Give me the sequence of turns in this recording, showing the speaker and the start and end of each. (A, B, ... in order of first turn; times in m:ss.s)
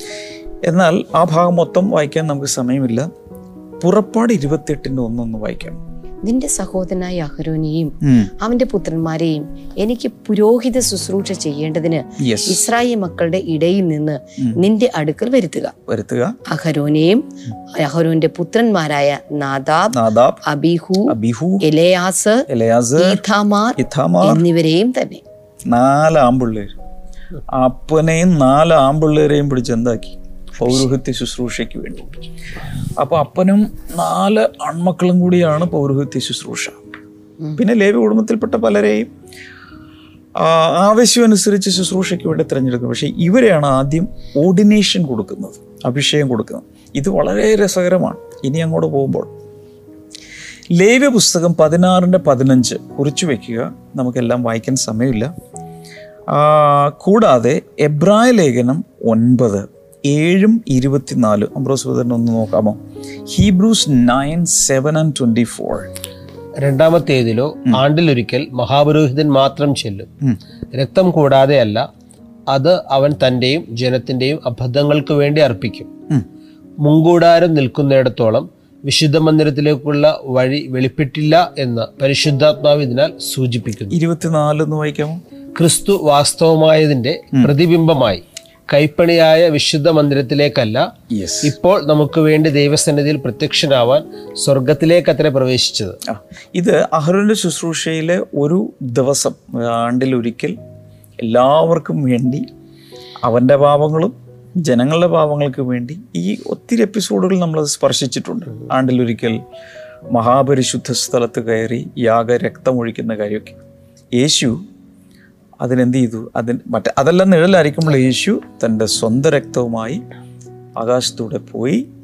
0:00.6-0:03.1 A
0:03.8-0:05.8 A
0:06.2-0:15.7 B
0:08.0-0:08.3 A
0:12.2-0:12.7 A
0:15.9-0:16.4 A
0:16.5-0:25.2 B
0:19.9-0:20.4 A
0:21.1-0:21.7 A
0:22.5-0:23.2 A
0:23.8-0:24.5 A
0:25.7-0:26.7 A
0:27.5-0:32.1 A
0:33.0-0:36.8 A
0:37.6-0:39.1 A
0:40.4-0:49.3 A
0:50.7-0:55.3 A
0:56.3-1:05.9 A
1:06.6-1:10.1 C
1:10.7-1:11.9 C
1:12.5-1:15.9 C
1:16.8-1:24.0 C
1:23.9-1:25.2 A
1:25.6-1:30.9 C
1:31.1-1:31.6 A
1:31.4-1:36.0 C
1:36.1-1:40.6 A
1:41.2-1:42.5 A
1:43.2-1:49.4 A
1:50.1-1:53.6 A
1:54.2-1:54.6 A
1:55.6-2:00.0 A
2:00.8-2:01.8 A